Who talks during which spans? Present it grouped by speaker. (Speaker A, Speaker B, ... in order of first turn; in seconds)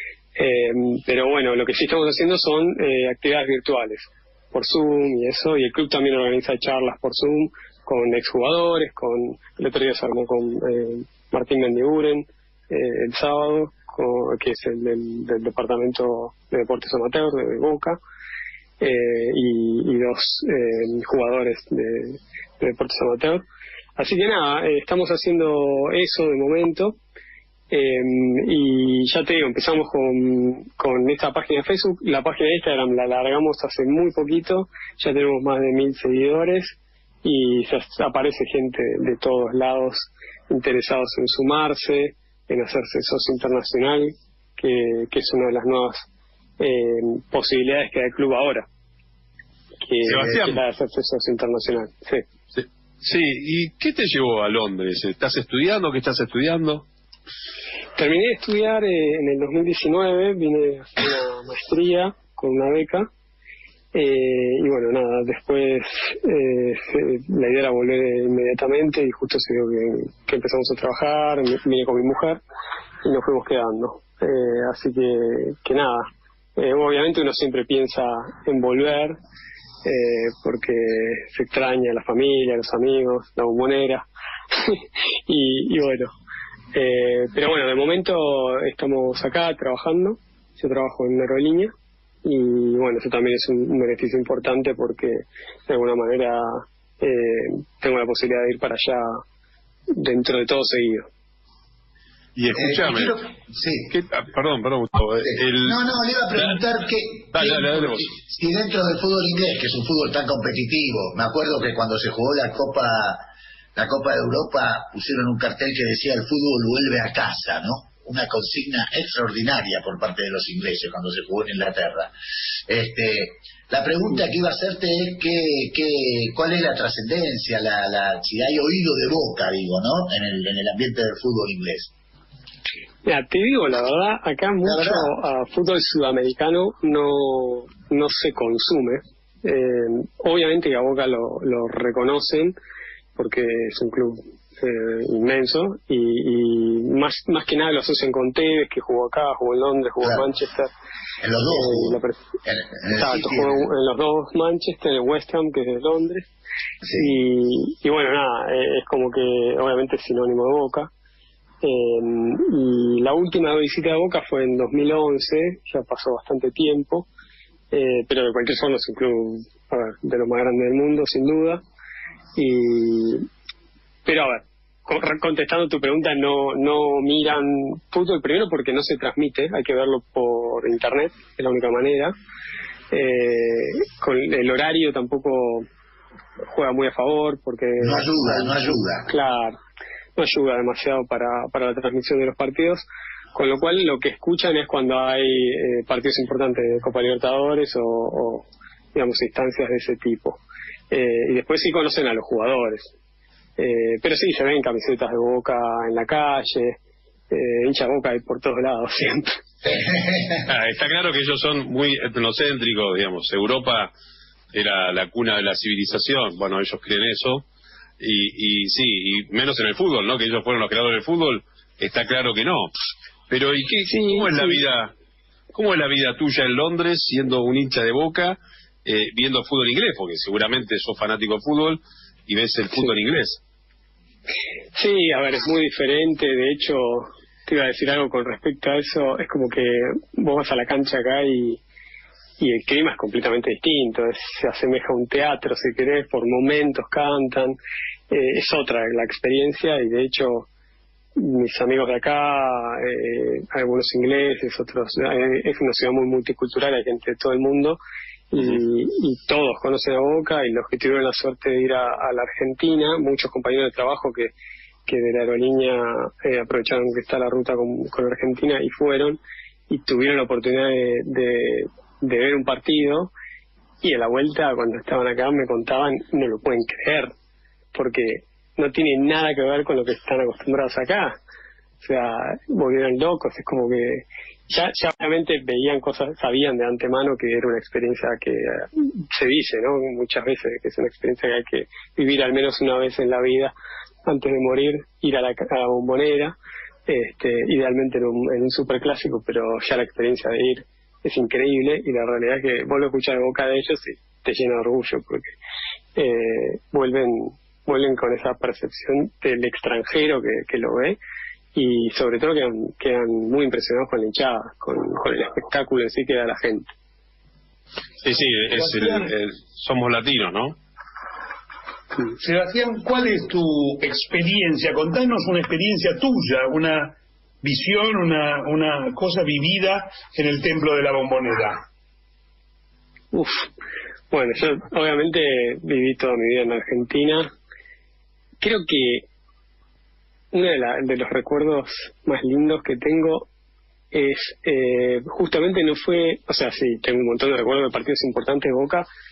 Speaker A: 0.3-18.0, 18.8-23.4, 24.0-27.0, 27.7-46.1, 46.6-48.7, 49.8-52.3, 58.0-63.1, 63.9-72.4, 73.0-79.2, 79.8-86.1, 86.7-91.7, 92.2-99.2, 100.0-101.1, 133.0-142.5, 143.2-150.7, 151.5-152.2, 152.9-156.3, 156.9-160.9, 161.6-167.1, 167.7-171.6, 172.3-173.2, 174.0-182.1, 182.9-185.7, 186.5-189.6, 190.2-202.9, 203.6-206.8, 207.3-209.4, 223.9-224.6, 234.7-241.6, 242.4-247.6, 248.1-250.5, 251.2-257.8, 258.3-264.3, 264.9-269.2, 269.7-273.1, 273.8-277.1, 277.7-281.1, 281.8-293.5, 294.1-296.4, 296.9-305.3, 305.9-311.0, 311.5-316.7, 333.1-333.5, 334.1-337.3, 338.4-339.1, 340.3-343.3, 343.9-348.9
Speaker B: 50.0-50.6, 52.5-56.8, 102.3-103.2, 103.9-105.8, 106.3-106.6, 107.3-108.1, 210.4-213.9, 214.5-217.4, 218.0-222.7, 223.3-224.9, 225.5-233.4, 318.0-320.6
Speaker C: 102.5-103.9, 105.2-122.1, 122.7-131.9, 134.6-135.1, 151.2-153.7, 156.8-157.1, 187.8-189.1, 209.6-210.4
Speaker D: 318.5-319.1, 322.1-331.6